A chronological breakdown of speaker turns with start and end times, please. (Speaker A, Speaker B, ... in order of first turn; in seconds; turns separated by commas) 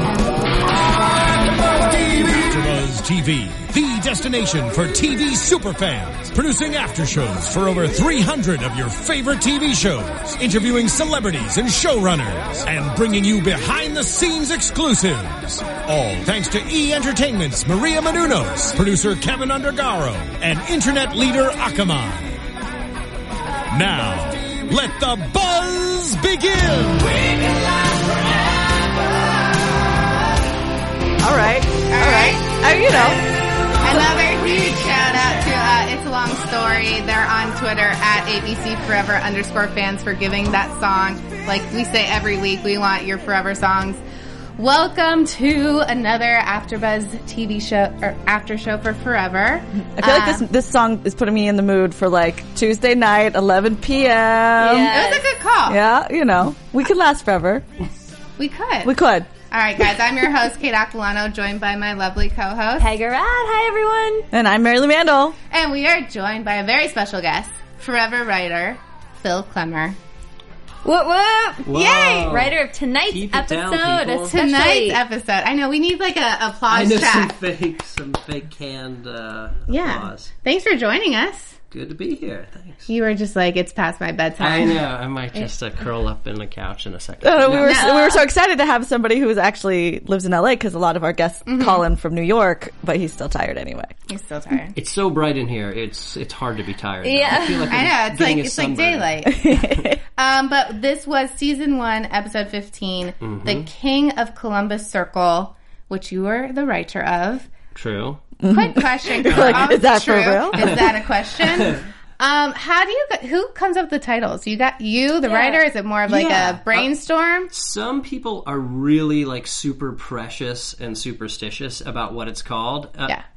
Speaker A: 1.0-22.4, Speaker A: 23.7-27.4, Speaker B: 31.2-33.2, Speaker C: 31.9-44.0, Speaker C: 44.6-50.4, Speaker B: 49.8-54.9, Speaker D: 54.6-55.2, Speaker C: 54.9-55.8, Speaker B: 55.7-57.6, Speaker C: 58.4-58.9, Speaker B: 58.8-59.3, Speaker C: 59.5-62.9, Speaker D: 62.8-64.3, Speaker B: 64.3-65.3, Speaker C: 65.5-70.0, Speaker D: 70.8-75.0, Speaker E: 71.6-74.3, Speaker C: 71.7-72.3, Speaker C: 74.3-77.3, Speaker E: 76.7-80.3, Speaker C: 79.7-81.5, Speaker E: 81.7-82.9, Speaker C: 82.9-84.8, Speaker E: 84.4-87.8, Speaker B: 87.2-93.9, Speaker C: 87.6-88.2, Speaker D: 87.8-88.1, Speaker C: 91.5-91.8, Speaker C: 94.1-94.7, Speaker E: 94.7-99.1, Speaker D: 97.0-97.8, Speaker C: 97.7-99.5, Speaker B: 99.3-100.0, Speaker C: 100.2-107.5, Speaker E: 103.2-103.7, Speaker E: 107.7-108.3, Speaker B: 108.4-110.8, Speaker C: 108.4-117.5, Speaker E: 109.2-109.8, Speaker E: 110.5-110.9, Speaker E: 111.4-111.8, Speaker D: 115.2-115.6, Speaker E: 116.0-116.9, Speaker E: 117.5-123.2